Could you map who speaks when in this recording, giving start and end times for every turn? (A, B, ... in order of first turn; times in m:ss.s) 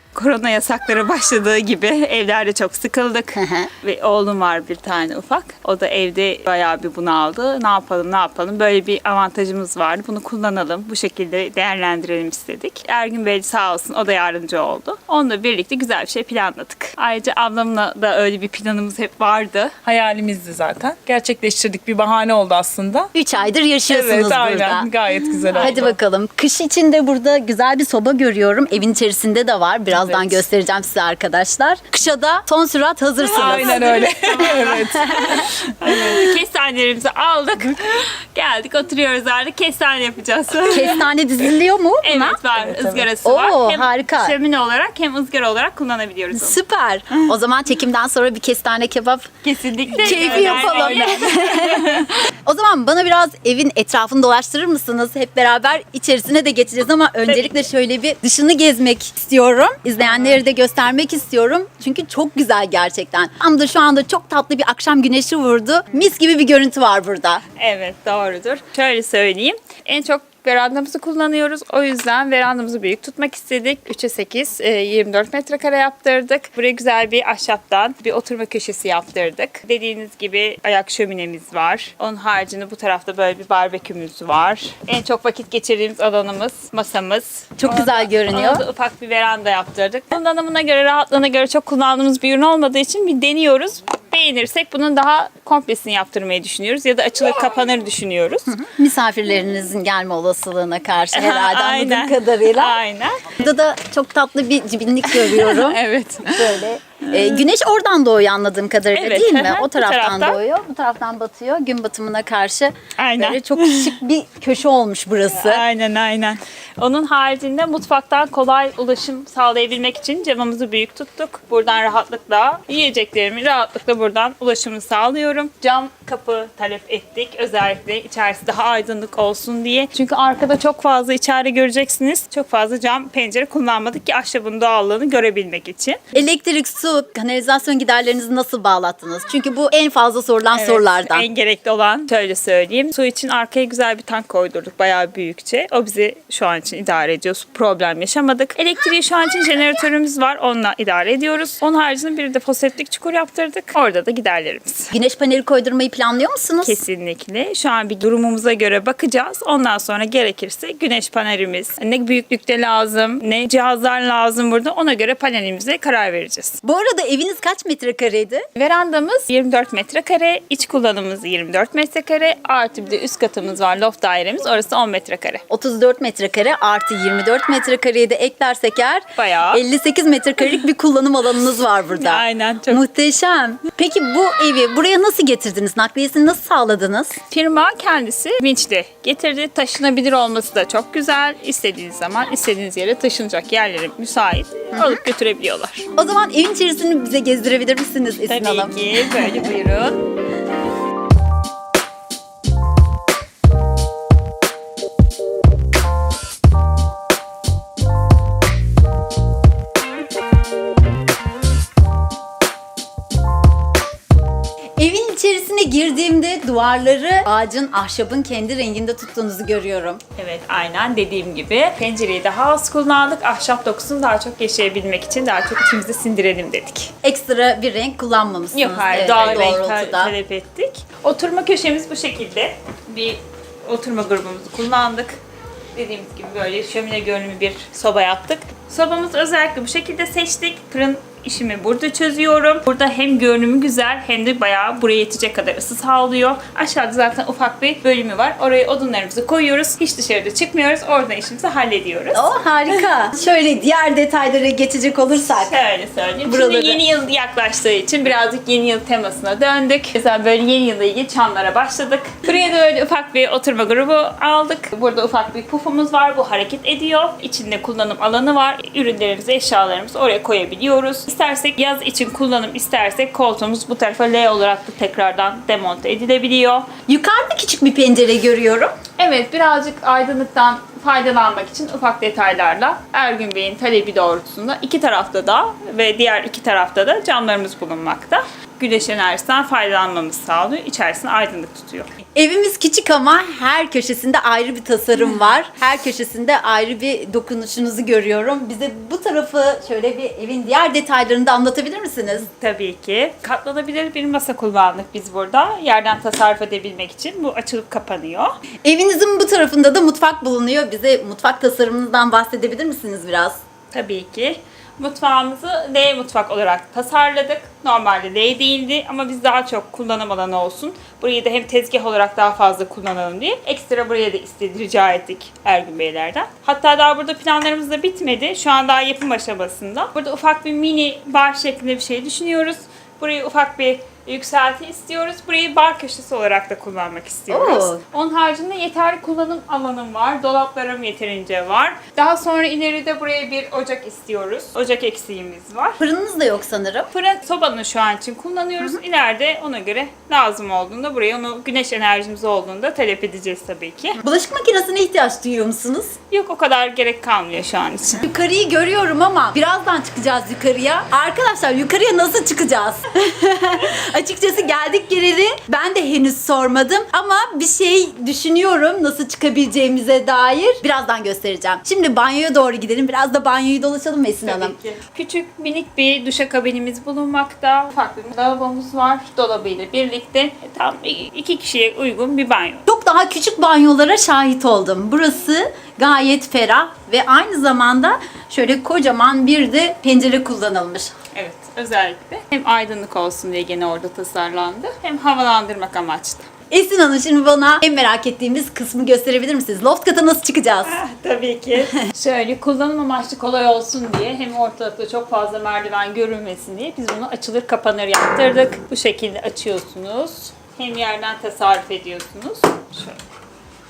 0:00.2-0:19.8 A
0:03.4-0:03.7 B
0:19.8-0:23.1 C
0:23.1-0:24.9 B
0:23.9-0:26.0 C
0:25.4-0:25.9 A
0:25.5-0:34.1 B
0:33.3-0:35.7 C
0:33.3-0:41.1 A
0:35.0-0:35.4 B
0:40.7-0:42.4 B
0:42.0-0:46.6 A
0:42.6-0:43.1 C
0:43.2-0:44.4 B
0:46.3-0:49.3 B
0:49.4-0:52.2 A
0:50.0-1:07.4 B
0:50.0-0:51.8 C
0:57.3-0:57.6 A
1:00.0-1:00.4 A
1:07.6-1:38.5 A
1:27.6-1:28.6 B
1:38.5-1:42.8 B
1:41.1-1:43.3 A
1:43.4-1:55.6 B
1:45.0-1:47.5 A
1:48.9-1:50.4 A
1:53.0-1:54.0 A
1:55.3-2:16.0 A
2:16.1-2:21.3 B
2:20.5-2:34.9 A
2:34.9-2:36.8 B
2:36.6-2:46.6 A
2:46.6-2:48.4 B
2:48.6-2:55.4 A
2:55.5-3:07.2 B
2:59.2-2:59.6 A
3:02.0-3:02.8 A
3:07.3-3:15.9 A
3:16.0-3:19.3 B
3:18.3-3:20.0 A
3:34.8-3:40.0 B
3:40.2-3:46.9 A
3:47.0-3:50.1 B
3:48.5-3:55.2 A
3:55.8-4:12.4 A
4:12.1-4:15.6 B
4:15.3-4:36.7 A
4:16.3-4:16.8 B
4:36.9-4:38.7 B
4:39.0-4:51.9 A
4:52.2-5:02.3 B
5:02.3-5:08.4 A
5:08.6-5:13.4 B
5:13.7-5:45.8 A
5:37.3-5:37.8 B
5:45.8-5:46.9 B
5:46.9-5:54.0 A
5:54.0-5:56.0 B
5:56.1-5:58.0 A
5:58.0-6:14.6 B
6:14.2-6:22.6 A
6:22.7-6:30.9 B
6:31.1-6:36.3 A
6:36.5-6:40.8 B
6:40.6-6:53.0 A